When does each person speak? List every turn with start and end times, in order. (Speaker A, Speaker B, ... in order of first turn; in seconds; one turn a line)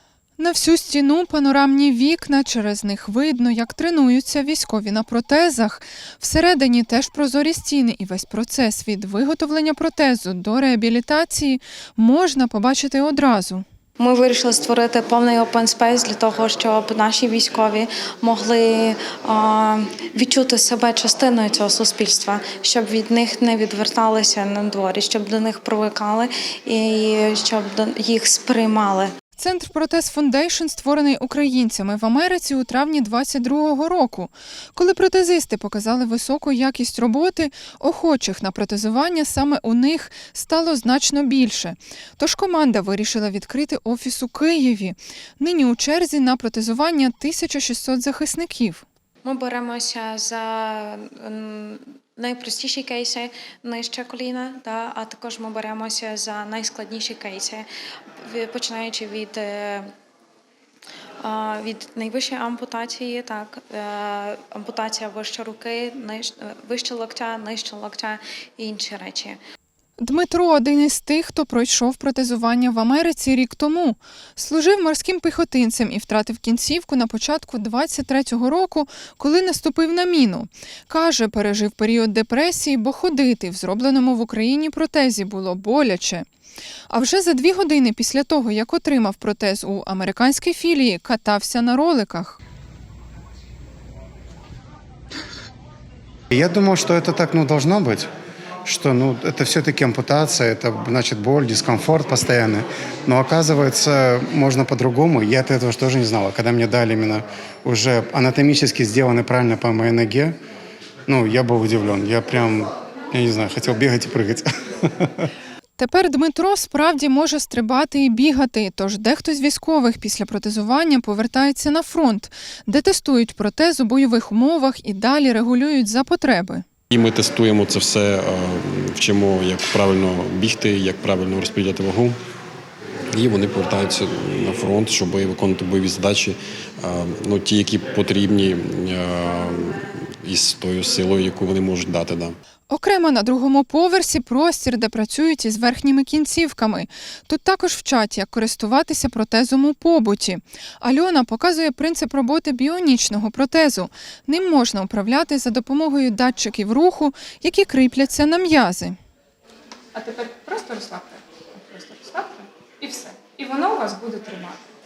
Speaker A: 0.4-13.6
Speaker B: 14.0-29.1
Speaker A: 29.4-48.8
Speaker B: 49.2-57.6
Speaker B: 58.2-59.9
Speaker B: 61.2-69.4
Speaker A: 70.0-86.3
Speaker A: 86.9-92.4
Speaker C: 96.3-98.1
Speaker C: 98.6-110.3
Speaker C: 111.1-115.2
Speaker A: 115.8-126.6
Speaker D: 126.9-132.2
Speaker D: 133.1-142.3
Speaker A: 142.7-159.0
Speaker E: 159.9-164.6